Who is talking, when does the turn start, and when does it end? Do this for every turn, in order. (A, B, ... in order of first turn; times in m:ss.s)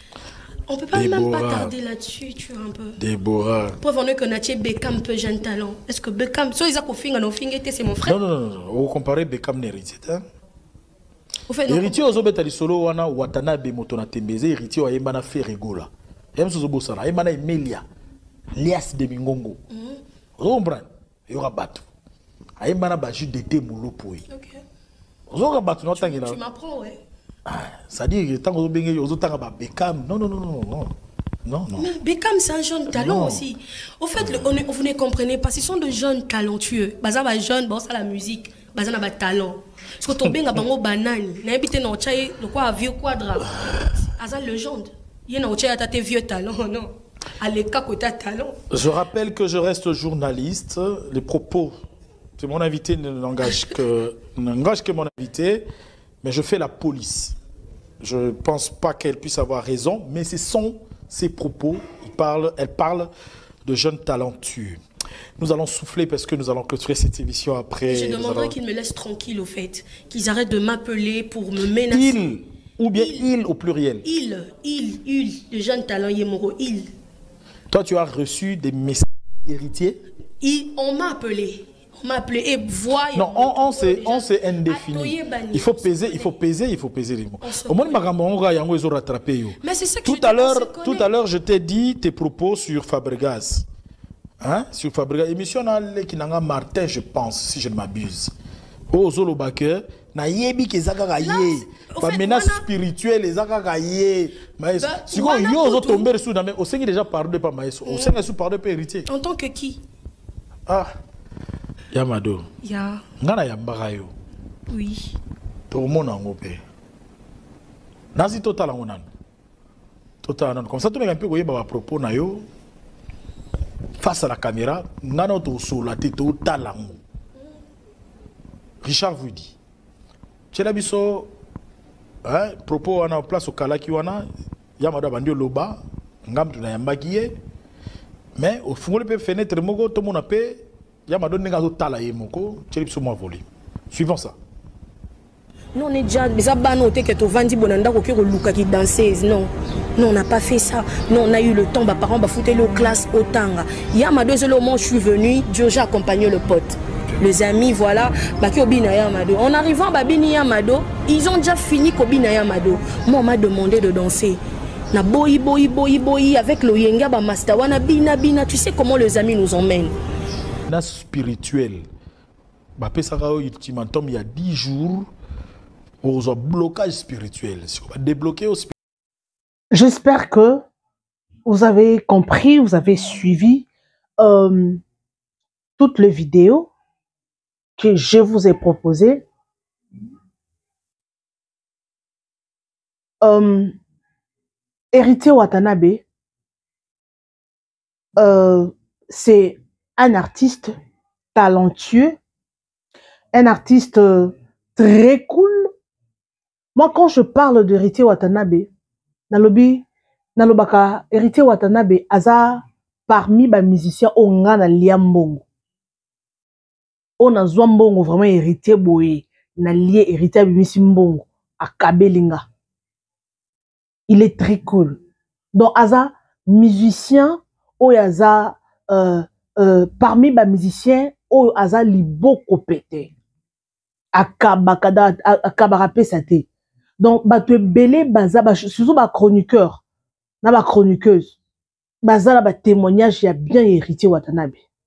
0:00.7-0:03.0 A
0:00.9-0:01.7 B
0:03.0-0:03.8 B
0:03.8-0:08.2 A
0:08.0-0:10.2 B
0:11.5-0:12.1 A
0:11.7-0:17.8 B
0:18.6-0:19.6 B
0:19.7-0:20.0 A
0:20.4-0:21.9 B
0:22.6-0:24.2 B
0:24.3-0:24.6 A
0:25.3-0:26.4 B
0:26.0-0:27.0 A
0:27.5-0:30.9 B
0:31.4-0:31.9 B
0:31.8-0:48.6 A
0:32.9-0:33.5 B
0:34.2-0:34.5 B
0:43.6-0:43.9 B
0:48.7-0:51.8 B
0:52.4-0:55.7 B
0:53.4-0:53.7 A
0:56.2-0:57.4 B
0:58.0-1:03.1 B
1:03.6-1:04.8 B
1:05.4-1:08.6 B
1:07.9-1:12.3 A
1:11.9-1:14.1 B
1:12.9-1:13.3 A
1:14.0-1:16.9 A
1:17.7-1:20.0 B
1:20.4-1:26.3 A
1:23.1-1:33.7 B
1:27.4-1:28.1 A
1:29.6-1:31.1 A
1:34.4-1:38.3 B
1:38.9-1:49.1 B
1:41.2-1:42.6 A
1:44.8-1:46.1 A
1:47.9-1:48.2 A
1:49.1-1:49.8 A
1:50.7-1:50.9 B
1:51.9-1:52.5 B
1:52.6-1:53.0 A
1:53.2-1:54.1 B
1:54.7-1:55.2 A
1:55.7-1:56.6 B
1:58.2-1:59.0 B
2:00.2-2:02.5 B
2:04.0-2:07.0 B
2:08.8-2:09.6 B
2:10.5-2:11.3 B
2:12.2-2:14.3 B
2:14.8-2:17.4 B
2:18.4-2:24.4 B
2:25.8-2:44.4 A
2:44.9-2:50.0 A
2:50.7-2:51.9 B
2:52.8-2:55.1 B
2:56.0-2:58.7 B
2:59.7-3:00.6 C
3:01.5-3:03.7 C
3:04.2-3:04.8 C
3:05.8-3:06.7 C
3:07.8-3:09.2 C
3:13.2-3:13.8 C
3:14.9-3:16.0 C
3:18.2-3:20.8 C
3:21.4-3:22.2 C
3:23.3-3:25.7 C
3:26.8-3:28.7 C
3:29.3-3:29.8 C
3:30.4-3:35.4 C
3:37.2-3:42.4 C
3:44.1-3:45.0 C
3:45.5-3:53.1 C
3:54.2-3:56.5 C
3:57.0-3:59.8 C
4:00.4-4:01.4 C
4:02.0-4:04.6 C